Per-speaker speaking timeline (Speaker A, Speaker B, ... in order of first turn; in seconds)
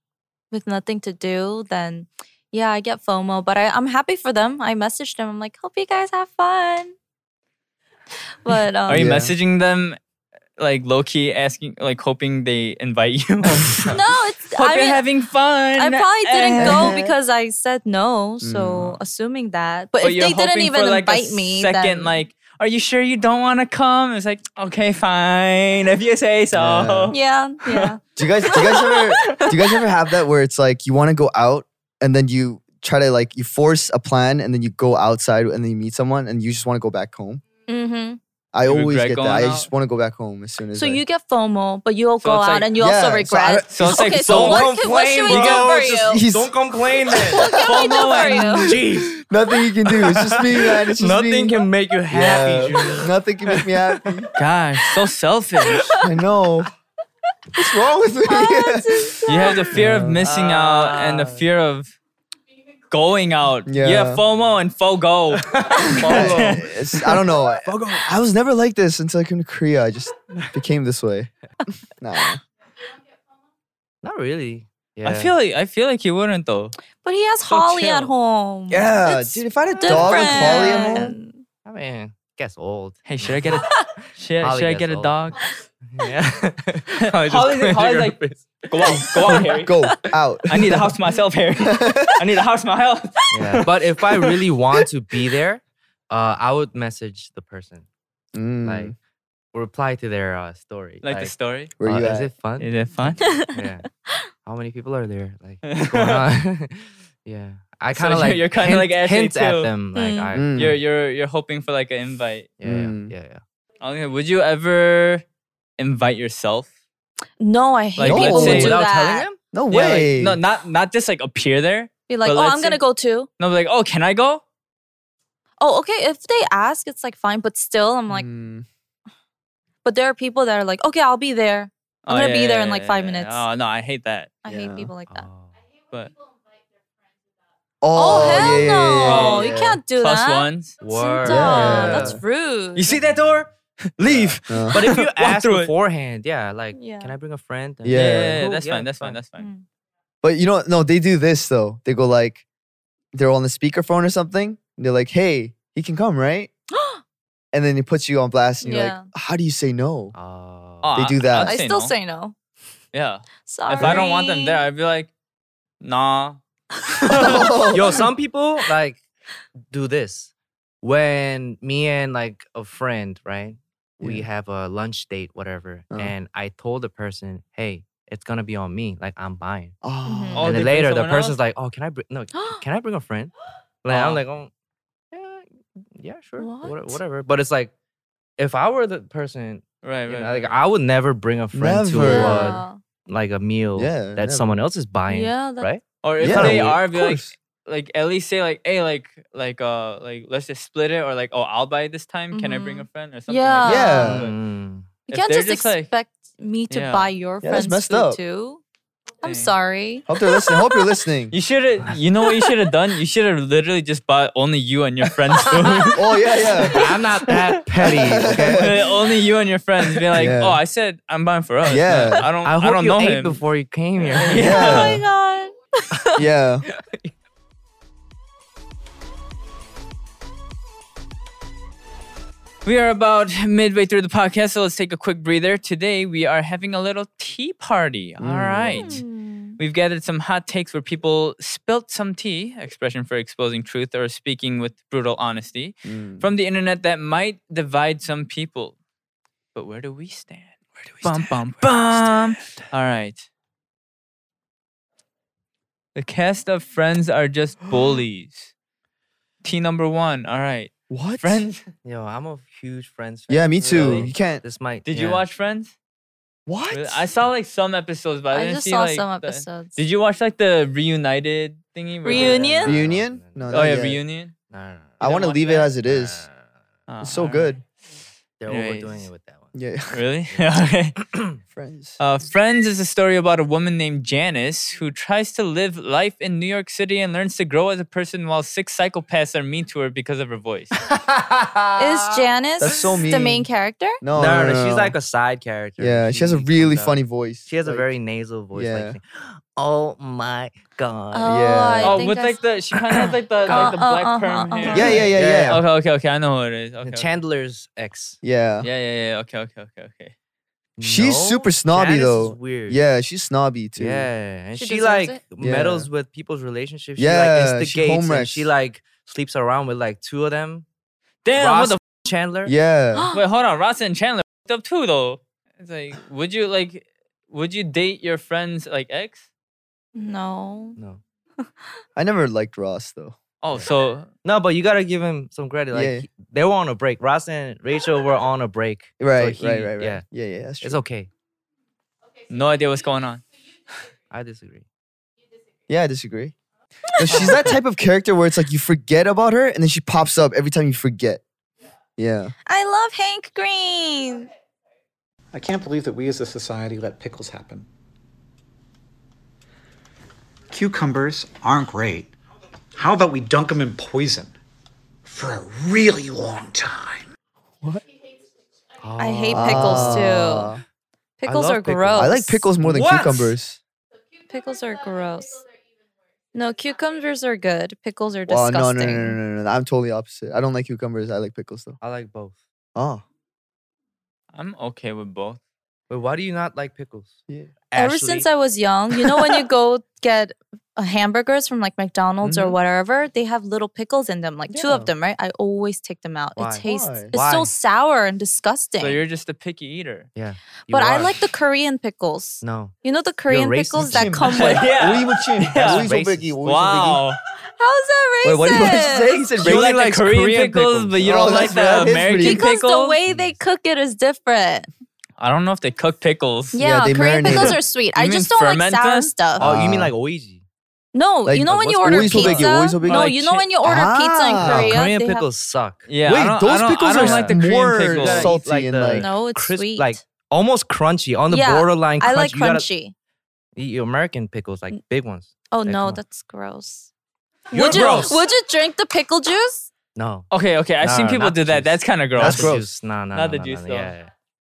Speaker A: 0.5-7.0, 8.4-9.1, 13.9-15.0, 15.8-22.1, 27.1-28.0, 28.5-29.4, 37.7-38.2, 40.7-46.2, 47.3-48.7, 58.3-59.6, 77.0-81.4, 103.2-103.6, 110.0-110.3, 117.4-119.3, 122.1-123.3, 125.6-128.3, 129.8-133.4, 134.4-135.3, 137.9-143.0, 146.7-147.1, 149.4-149.6, 156.7-157.0, 158.6-159.1, 161.4-162.3, 163.4-164.6, 180.1-180.4, 182.3-182.6, 186.4-187.0, 192.0-192.8, 195.1-195.7, 202.3-204.1, 205.1-208.6, 209.2-210.9, 224.3-226.1, 238.8-239.6, 268.3-269.8, 272.0-272.8, 291.8-294.0, 301.1-302.4, 303.5-305.0, 314.6-315.2, 322.9-323.2, 329.9-330.8, 352.5-354.3, 369.0-370.5, 371.2-372.5, 374.3-375.4, 376.3-379.2, 387.8-399.0, 400.7-404.7, 407.6-409.2, 412.2-414.7, 416.5-419.5, 420.9-425.3, 428.9-430.0, 431.3-432.9, 435.5-436.9, 437.5-439.7
Speaker B: 8.9-10.0, 10.6-14.0, 14.5-17.0, 20.0-27.1, 38.7-39.7, 42.2-42.7, 43.7-44.7, 47.6-48.7, 54.4-55.9, 59.3-61.9, 62.9-66.6, 75.0-76.8, 77.5-78.1, 83.1-85.4, 87.1-89.8, 90.5-93.7, 101.0-101.7, 102.6-103.3, 105.6-106.3, 107.9-109.7, 110.6-112.5, 113.8-115.2, 115.8-116.7, 118.0-118.8, 119.7-122.8, 123.4-124.4, 132.1-134.3, 139.0-140.8, 142.8-145.7, 147.9-149.5, 160.8-161.9, 162.9-165.1, 165.8-166.4, 180.4-181.4, 183.9-184.2, 189.8-190.6, 196.0-204.4, 205.1-205.9, 206.7-207.1, 209.2-209.5, 211.3-216.0, 217.3-223.4, 224.0-225.0, 232.6-239.0, 239.6-248.8, 249.6-253.3, 255.9-258.5, 259.4-261.6, 263.7-264.1, 264.9-265.7, 266.7-272.6, 273.5-274.3, 275.0-275.6, 276.9-277.6, 278.5-279.1, 279.9-281.0, 282.0-290.8, 301.8-307.1, 308.6-310.1, 321.2-321.8, 323.1-329.3, 333.4-334.1, 342.3-343.2, 347.1-347.4, 384.3-385.4, 398.8-400.1, 404.4-405.9, 406.4-407.2, 409.4-413.0, 415.2-416.6, 417.3-419.1, 422.9-423.4, 425.9-428.4, 440.3-442.6, 443.1-443.9
Speaker C: 8.9-9.3, 16.6-17.1, 18.4-19.0, 26.5-27.1, 28.2-37.4, 38.5-41.0, 42.8-44.7, 45.3-46.6, 47.1-54.3, 56.0-56.7, 57.5-59.2, 59.7-60.3, 63.6-64.2, 66.0-71.3, 71.9-72.4, 78.7-81.2, 89.2-91.0, 91.6-92.3, 98.3-99.0, 101.8-102.3, 110.3-110.8, 112.6-113.1, 118.0-118.8, 119.5-120.4, 128.1-128.7, 134.5-134.9, 137.8-139.8, 141.2-142.2, 144.4-144.8, 147.8-148.4, 150.2-152.4, 153.1-156.5, 157.5-160.1, 160.9-161.6, 167.1-168.0, 174.0-174.3, 179.8-180.5, 191.5-192.6, 193.8-194.6, 196.2-197.3, 203.6-204.3, 207.4-208.2, 210.1-211.3, 215.9-216.8, 217.8-218.8, 220.1-220.6, 221.6-222.3, 224.3-225.0, 226.2-226.6, 238.2-239.0, 245.9-246.3, 260.9-261.4, 263.3-264.4, 266.5-267.0, 272.6-274.0, 275.0-276.3, 277.0-277.6, 279.6-280.0, 281.5-282.0, 292.6-293.5, 294.0-295.0, 295.8-297.9, 298.5-299.0, 301.2-302.0, 304.7-305.6, 308.2-308.7, 310.8-314.1, 315.4-315.9, 317.0-318.5, 322.5-323.1, 332.0-333.2, 335.7-336.1, 339.0-340.8, 345.7-346.4, 347.0-351.2, 352.0-352.3, 369.3-370.6, 372.0-373.6, 378.3-381.8, 382.8-383.0, 387.3-387.5, 392.2-392.6, 394.5-394.9, 396.6-397.1, 403.8-407.0, 408.2-409.7, 411.0-412.4, 416.6-417.6, 419.4-419.9, 421.3-424.8, 426.1-429.1, 437.7-438.0, 442.2-442.7
Speaker D: 44.2-47.5, 48.6-49.2, 49.9-54.2, 60.2-61.4, 65.4-66.7, 67.6-68.1, 74.0-75.3, 79.9-80.7, 81.6-85.1, 85.9-89.4, 93.3-97.9, 98.6-99.0, 99.5-103.9, 104.4-110.8, 112.6-113.4, 118.1-119.4, 135.1-135.6, 140.8-142.2, 142.9-143.3, 144.0-149.2, 160.1-161.0, 167.7-169.0, 169.7-179.8, 180.4-183.3, 183.8-184.5, 185.1-187.7, 188.4-196.8, 204.0-204.9, 216.7-218.7, 222.4-224.7, 226.7-227.1, 261.8-265.2, 272.1-273.7, 274.5-276.4, 278.4-279.6, 281.0-281.3, 290.9-292.1, 294.1-301.4, 303.5-303.8, 304.7-305.6, 306.8-308.2, 310.8-312.8, 313.8-320.6, 321.4-322.5, 334.2-340.0, 340.6-341.1, 344.1-344.6, 368.8-370.6, 371.3-373.4, 381.8-382.4, 385.9-387.2, 387.7-388.3, 396.4-397.5, 400.1-401.3, 402.4-402.8, 403.3-404.4, 405.6-406.3, 409.4-411.6, 413.1-413.4, 419.4-420.4, 421.4-422.5, 424.4-425.9, 426.9-432.7, 433.6-436.0, 437.5-438.3, 439.9-440.3, 440.8-444.1
Speaker E: 355.3-357.7, 360.5-362.1, 362.8-364.3, 365.1-367.0